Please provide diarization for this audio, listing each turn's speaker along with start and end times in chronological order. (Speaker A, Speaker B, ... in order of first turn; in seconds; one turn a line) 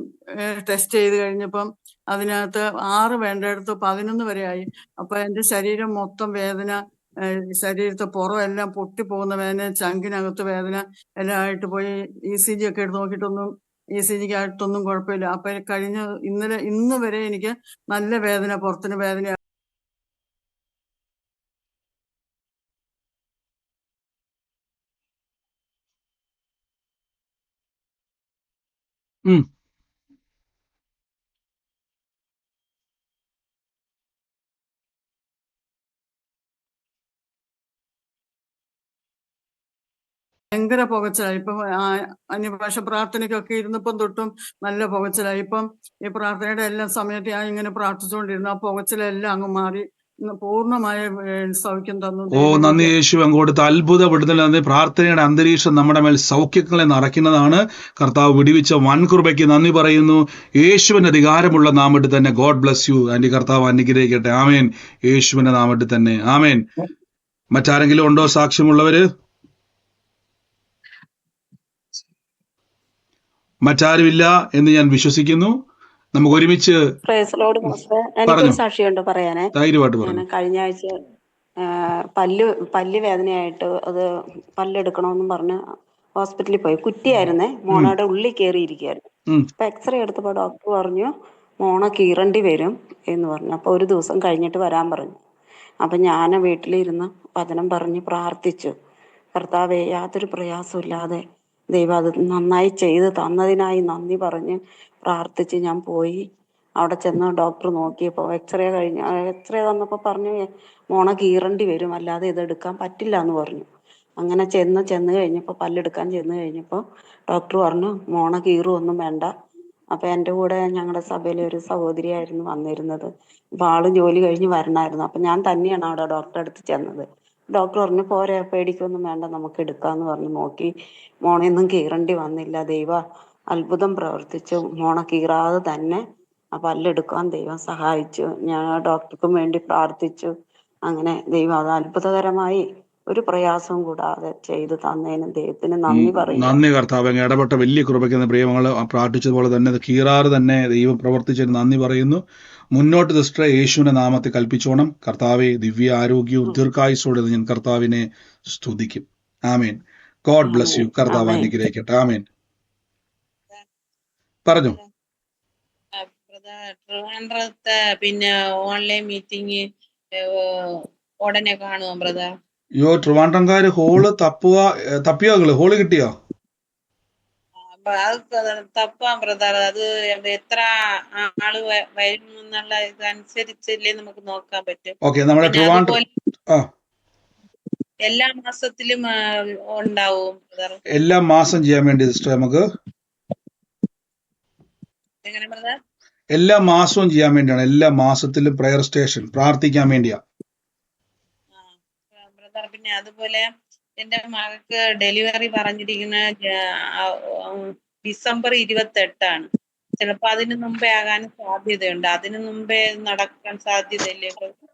Speaker A: 0.4-19.4
Speaker A: 40.5-52.9
Speaker B: 52.3-66.6
Speaker B: 67.5-69.0
Speaker B: 73.7-75.6
Speaker B: 76.2-76.8
Speaker C: 77.1-79.5
Speaker B: 78.3-78.6
Speaker B: 79.6-80.2
Speaker C: 80.2-80.9
Speaker C: 82.2-84.0
Speaker C: 84.6-85.6
Speaker C: 86.2-89.0
Speaker C: 89.6-91.1
Speaker C: 91.7-95.2
Speaker C: 95.8-98.7
Speaker C: 99.4-101.2
Speaker C: 101.7-104.6
Speaker C: 105.1-106.2
Speaker C: 106.8-110.3
Speaker C: 110.9-113.7
Speaker C: 114.2-116.8
Speaker C: 117.3-119.3
Speaker C: 120.0-123.1
Speaker C: 123.6-127.0
Speaker C: 127.6-130.7
Speaker C: 131.3-132.9
Speaker C: 133.5-136.0
Speaker C: 136.6-140.3
Speaker C: 140.9-142.6
Speaker C: 143.1-145.9
Speaker B: 145.9-152.2
Speaker B: 152.7-162.2
Speaker B: 164.5-164.8
Speaker D: 166.0-169.7
Speaker D: 171.2-172.3
Speaker B: 172.8-176.1
Speaker D: 177.8-186.1
Speaker B: 185.0-186.0
Speaker D: 188.1-189.1
Speaker D: 189.7-190.8
Speaker B: 190.9-192.6
Speaker D: 195.2-195.8
Speaker B: 196.3-200.2
Speaker D: 201.5-203.5
Speaker D: 204.0-209.5
Speaker D: 210.0-214.5